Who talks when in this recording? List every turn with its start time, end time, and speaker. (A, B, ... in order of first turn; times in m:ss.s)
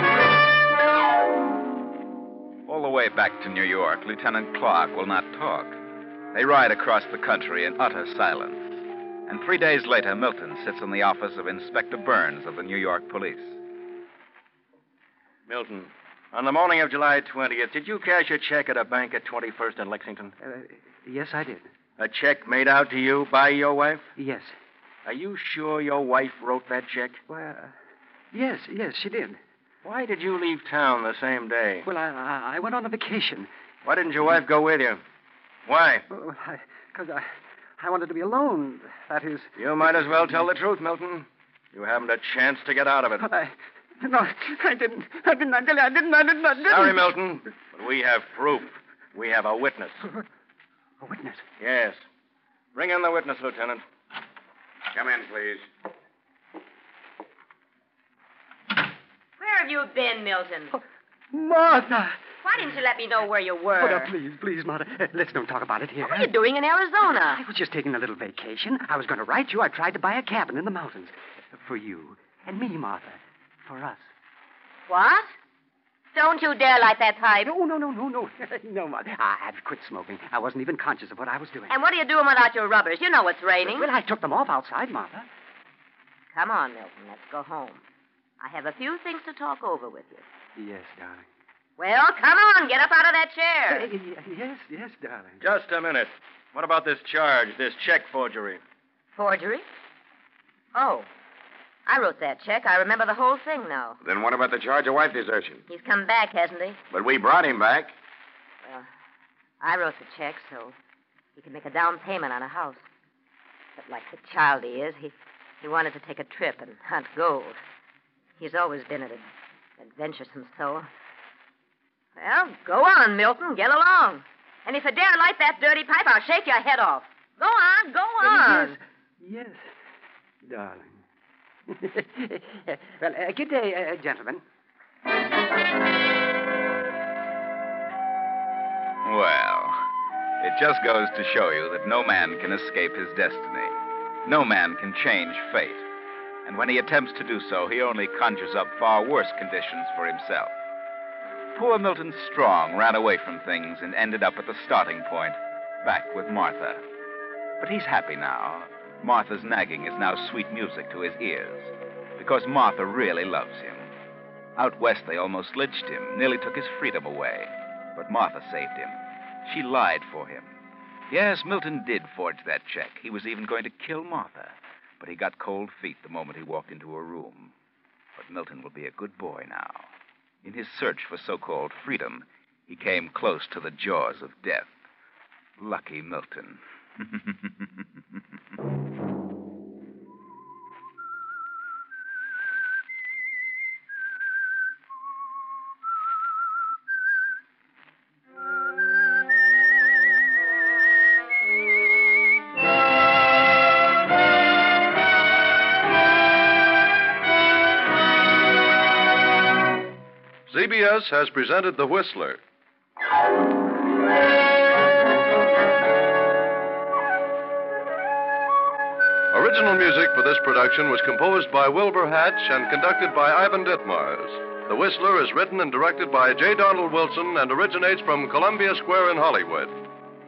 0:02.7-0:05.8 A
0:06.3-0:13.6 A
0:15.5-0:20.3 B
0:20.4-0:21.7 C
0:22.0-0:24.0 B
0:24.2-0:24.6 C
0:25.1-0:27.2 B
0:27.3-0:27.7 C
0:28.3-0:29.4 C
0:29.8-0:31.8 B
0:31.8-0:33.5 C
0:33.8-0:35.0 B
0:35.7-0:36.0 B
0:36.1-0:37.3 C
0:37.8-0:39.5 C
0:39.6-0:43.2 B
0:43.2-0:47.0 C
0:46.7-0:49.9 B
0:51.0-0:51.4 C
0:51.6-0:52.0 B
0:52.8-0:53.8 B
0:54.9-0:55.7 D
0:59.4-1:00.7 E
1:01.3-1:02.2 C
1:02.4-1:04.1 E
1:03.8-1:06.3 C
1:06.0-1:07.4 E
1:07.3-1:14.1 C
1:14.9-1:15.3 E
1:16.1-1:17.5 E
1:17.4-1:21.8 C
1:21.7-1:23.9 E
1:23.7-1:25.3 C
1:26.3-1:27.8 E
1:28.4-1:30.2 E
1:30.6-1:31.3 C
1:31.8-1:33.9 E
1:33.7-1:35.4 C
1:35.4-1:38.6 B
1:39.2-1:39.6 E
1:40.7-1:41.1 E
1:41.9-1:44.0 E
1:44.0-1:45.6 D
1:45.7-1:46.8 E
1:46.9-1:47.9 D
1:49.6-1:50.8 E
1:51.4-1:52.8 E
1:53.8-1:57.6 E
1:58.4-1:59.3 E
1:59.8-2:00.9 E
2:02.2-2:08.8 E
2:08.2-2:09.6 C
2:10.4-2:11.0 C
2:11.7-2:14.4 C
2:19.0-2:19.8 A
2:20.4-2:25.8 A
2:26.4-2:30.5 A
2:31.6-2:36.8 A
2:37.6-2:43.9 A
2:44.6-2:50.6 A
2:51.1-2:57.5 A
2:58.2-2:59.9 A
3:00.4-3:04.8 A
3:05.6-3:07.8 A
3:30.5-3:32.4 F
3:39.3-3:49.8 F